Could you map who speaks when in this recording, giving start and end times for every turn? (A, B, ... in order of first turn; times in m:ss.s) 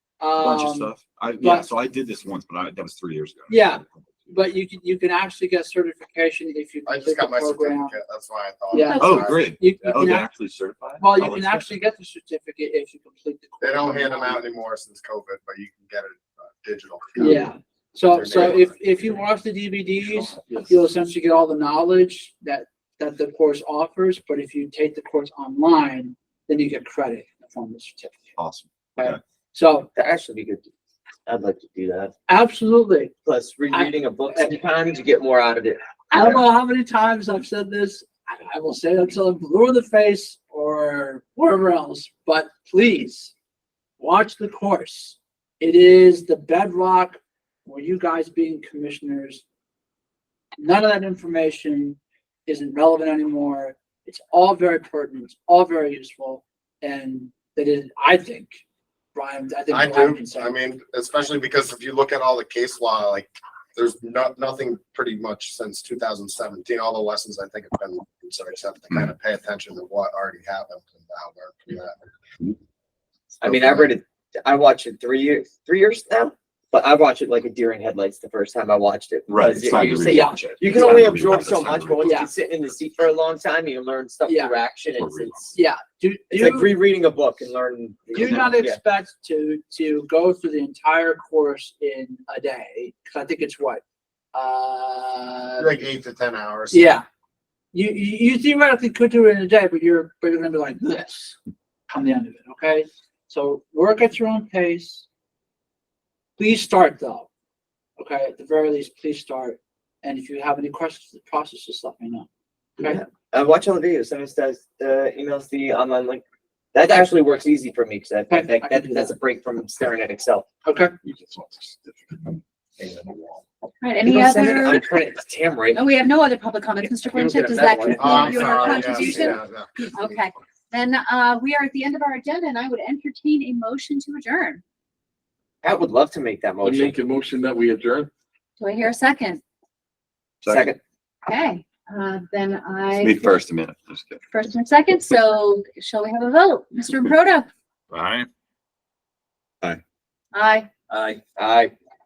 0:00.2-0:01.7 A
0:00.4-0:03.6 B
0:03.5-0:07.9 A
0:06.8-0:10.1 C
0:08.7-0:10.3 A
0:08.8-0:09.2 D
0:09.0-0:11.8 B
0:11.0-0:14.4 A
0:13.6-0:17.5 C
0:17.2-0:28.3 A
0:18.1-0:18.8 C
0:28.4-0:29.2 B
0:29.0-0:29.9 A
0:29.9-0:30.7 E
0:31.3-0:32.1 E
0:32.3-0:33.1 A
0:33.2-0:36.4 E
0:33.7-0:34.6 A
0:36.1-0:43.3 A
0:44.0-0:49.4 A
0:50.6-0:58.6 A
0:59.1-1:00.5 A
0:59.7-1:12.0 C
1:13.4-1:25.5 E
1:13.4-1:13.9 C
1:19.3-1:22.2 B
1:20.1-1:20.6 A
1:22.0-1:22.3 A
1:24.2-1:24.5 A
1:25.0-1:25.5 B
1:25.5-1:26.7 A
1:26.3-1:28.8 E
1:28.1-1:33.8 A
1:34.3-1:35.7 A
1:35.6-1:36.9 C
1:36.7-1:37.0 A
1:37.7-1:41.4 A
1:41.9-1:45.0 A
1:46.4-1:47.3 A
1:48.0-1:52.3 A
1:52.8-1:56.2 E
1:56.7-2:00.4 E
1:58.3-1:59.2 A
2:00.6-2:00.9 A
2:01.0-2:02.2 F
2:03.8-2:04.9 D
2:04.0-2:05.8 E
2:05.7-2:09.4 D
2:07.0-2:09.1 E
2:08.0-2:10.2 C
2:09.9-2:14.6 D
2:15.6-2:17.0 E
2:16.6-2:18.1 F
2:18.6-2:19.4 D
2:20.4-2:20.7 B
2:20.4-2:20.8 E
2:21.2-2:23.3 D
2:23.0-2:24.2 B
2:24.3-2:27.5 D
2:27.9-2:28.2 B
2:30.3-2:30.7 D
2:30.9-2:31.7 E